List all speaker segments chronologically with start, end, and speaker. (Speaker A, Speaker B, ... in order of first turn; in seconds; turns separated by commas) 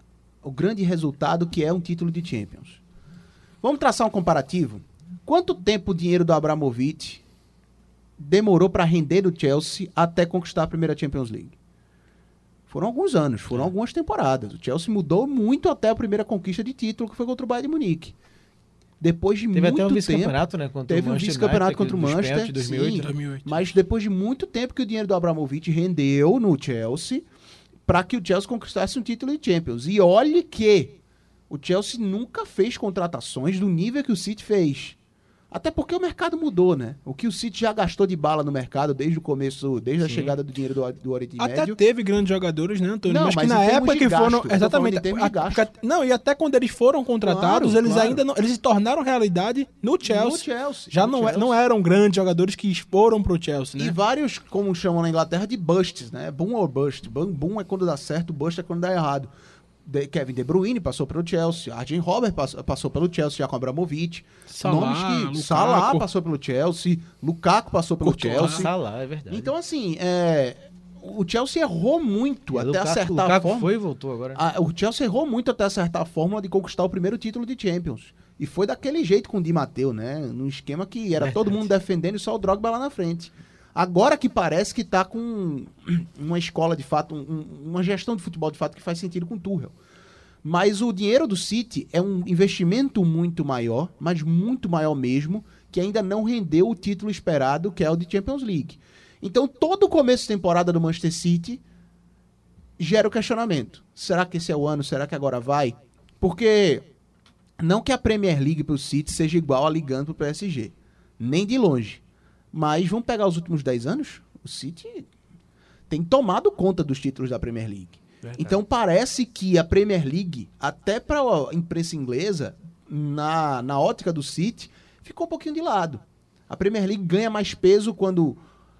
Speaker A: 0.4-2.8, Speaker A: 3.6-7.2, Speaker A: 8.2-11.5, Speaker A: 12.7-18.1, Speaker A: 19.0-27.2, Speaker B: 19.5-23.1, Speaker C: 23.0-23.6, Speaker A: 27.9-31.0, Speaker A: 31.5-35.0, Speaker A: 35.5-41.8, Speaker B: 40.0-40.3, Speaker C: 41.4-54.0, Speaker A: 43.0-45.7, Speaker A: 47.2-48.2, Speaker A: 50.0-51.5, Speaker A: 53.8-59.3, Speaker A: 59.8-68.7, Speaker C: 64.5-66.1, Speaker C: 68.0-68.7, Speaker B: 68.1-69.5, Speaker A: 69.3-73.7, Speaker B: 72.5-74.4, Speaker A: 74.3-89.7, Speaker B: 81.2-81.7, Speaker A: 90.4-101.6, Speaker A: 102.8-106.8, Speaker A: 107.6-115.0, Speaker A: 115.9-128.4